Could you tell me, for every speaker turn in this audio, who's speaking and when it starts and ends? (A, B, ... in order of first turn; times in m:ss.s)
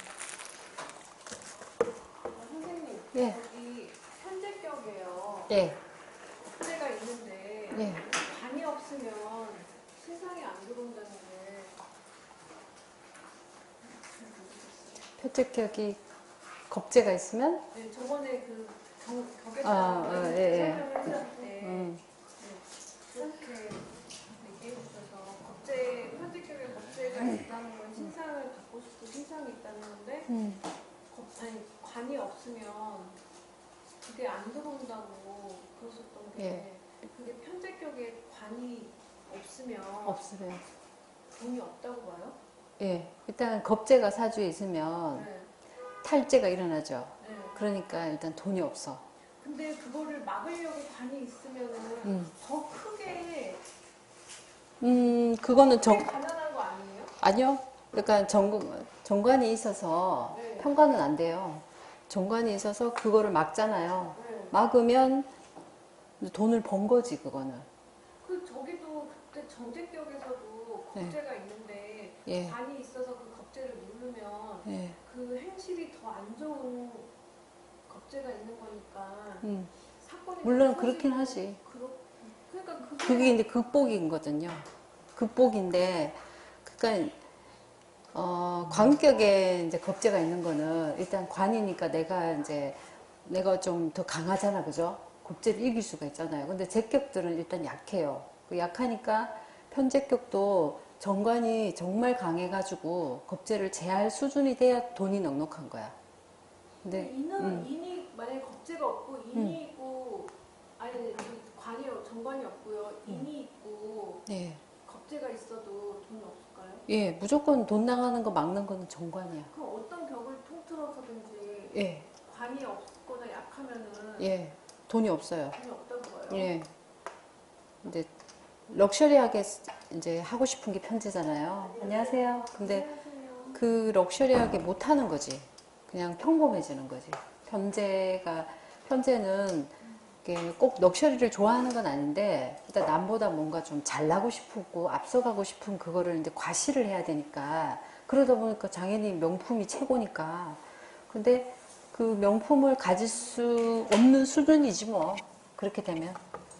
0:02.3-0:05.6 A
0:03.1-0:03.4 B
0:05.5-0:05.8 B
0:06.5-0:11.7 A
0:07.7-0:08.0 B
0:14.1-0:15.0 A
0:15.2-0:16.0 B
0:16.7-0:17.6 B
0:17.7-0:30.3 A
0:19.6-0:20.9 B
0:21.6-0:22.0 B
0:30.3-0:30.6 B
0:31.1-0:33.2 A
0:34.0-0:40.2 A
0:36.4-0:36.6 B
0:40.0-0:40.6 B
0:41.3-0:42.4 A
0:42.8-0:45.3 B
0:45.1-0:45.5 A
0:46.0-0:49.0 B
0:47.2-0:47.6 A
0:49.4-0:53.6 A
0:52.0-0:52.3 B
0:54.8-0:56.1 B
0:55.4-0:57.1 A
0:57.2-1:05.3 B
1:00.3-1:00.7 A
1:04.2-1:04.5 A
1:06.2-1:07.7 B
1:08.2-1:17.1 A
1:12.2-1:12.6 B
1:14.6-1:15.0 B
1:17.9-1:23.4 A
1:19.4-1:19.7 B
1:20.4-1:21.6 B
1:23.0-1:27.2 B
1:28.1-1:45.9 B
1:46.8-1:47.7 B
1:46.9-1:54.2 A
1:49.3-1:49.6 B
1:54.3-1:54.6 B
1:54.8-1:56.8 A
1:56.9-1:59.5 B
1:59.5-2:04.3 A
2:01.7-2:02.1 B
2:04.2-2:05.6 B
2:05.5-2:06.5 A
2:06.3-2:06.7 B
2:07.8-2:08.1 B
2:08.7-2:12.9 B
2:11.7-2:13.6 A
2:13.5-2:36.2 B